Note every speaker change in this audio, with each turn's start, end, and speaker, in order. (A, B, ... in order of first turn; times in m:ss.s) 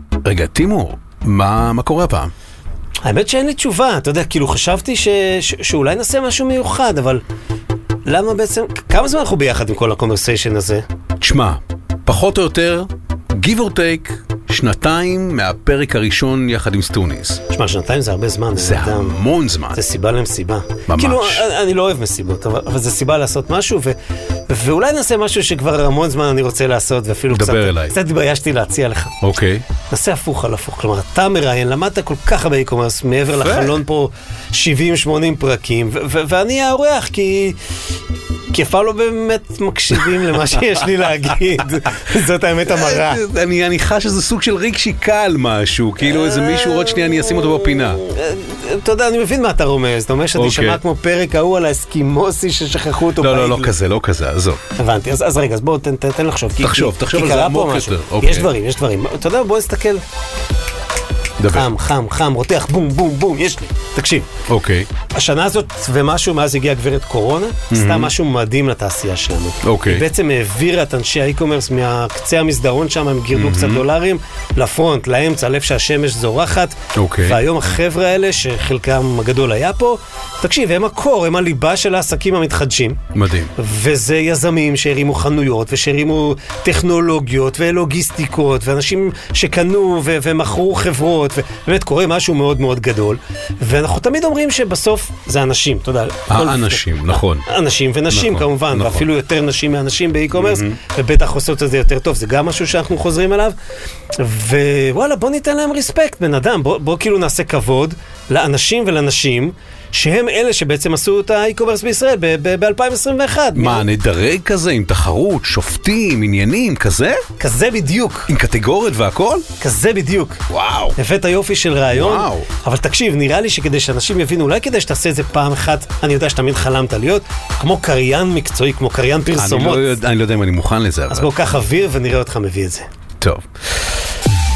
0:00.2-0:02.3 A
0:03.0-0:07.2 B
0:08.0-0:10.8 B
0:11.2-0:17.4 A
0:17.5-0:19.2 B
0:18.6-0:19.8 A
0:19.7-0:24.0 B
0:20.9-0:21.4 A
0:24.5-0:29.2 B
0:27.3-0:27.9 A
0:29.2-0:29.6 A
0:29.9-0:37.6 B
0:33.3-0:33.8 A
0:38.5-0:43.2 B
0:42.6-0:48.0 A
0:46.0-0:53.7 B
0:50.3-0:50.8 A
0:53.2-0:54.6 A
0:54.8-1:00.0 B
0:56.6-0:58.5 A
1:01.4-1:01.7 A
1:01.5-1:04.3 B
1:04.5-1:04.9 A
1:05.1-1:23.0 B
1:07.7-1:08.1 A
1:09.6-1:10.0 A
1:13.3-1:13.8 A
1:16.9-1:17.4 A
1:23.1-1:23.5 A
1:23.6-1:43.5 B
1:36.3-1:37.4 A
1:38.1-1:39.1 A
1:40.3-1:40.8 A
1:44.2-1:53.8 B
1:53.5-1:57.2 A
1:57.4-1:58.3 B
1:58.3-1:59.4 A
1:59.6-2:00.4 B
2:00.5-2:01.0 A
2:01.0-2:10.0 B
2:01.9-2:02.5 A
2:09.4-2:11.3 A
2:11.1-2:12.9 B
2:13.2-2:13.4 A